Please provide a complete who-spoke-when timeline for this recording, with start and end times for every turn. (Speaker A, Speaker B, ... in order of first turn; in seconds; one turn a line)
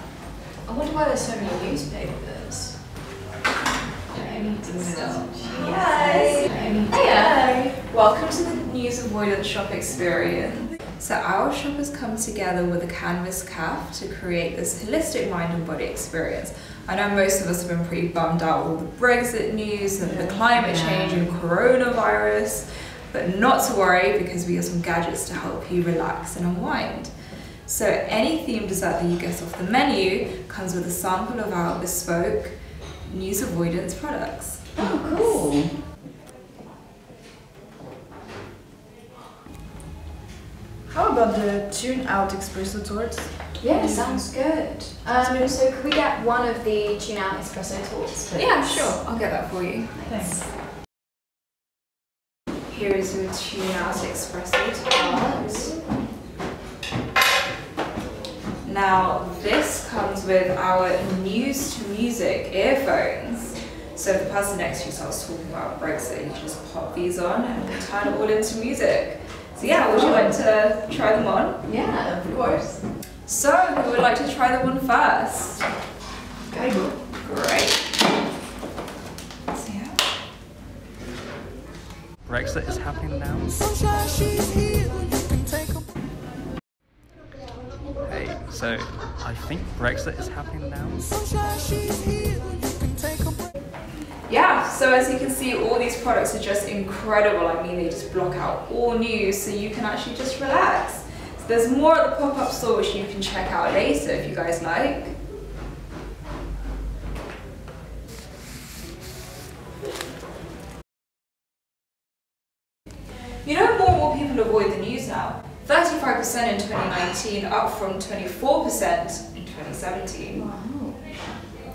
Speaker A: 0.7-3.0
Speaker A: 4.1-7.5
Speaker B: 4.2-34.6
Speaker C: 5.7-6.1
Speaker A: 20.0-21.4
Speaker A: 34.8-35.9
Speaker C: 40.9-44.5
Speaker A: 43.6-49.0
Speaker C: 45.1-45.6
Speaker B: 48.3-50.0
Speaker A: 49.9-50.4
Speaker C: 50.0-50.4
Speaker B: 52.7-55.8
Speaker A: 54.9-55.8
Speaker B: 58.6-71.6
Speaker A: 69.6-70.4
Speaker A: 71.6-72.8
Speaker B: 73.2-75.7
Speaker A: 76.5-76.9
Speaker C: 76.5-76.9
Speaker B: 77.1-77.8
Speaker B: 79.5-80.0
Speaker D: 82.2-83.9
Speaker D: 88.0-91.2
Speaker B: 94.3-105.2
Speaker B: 113.4-120.5
Speaker A: 120.3-121.0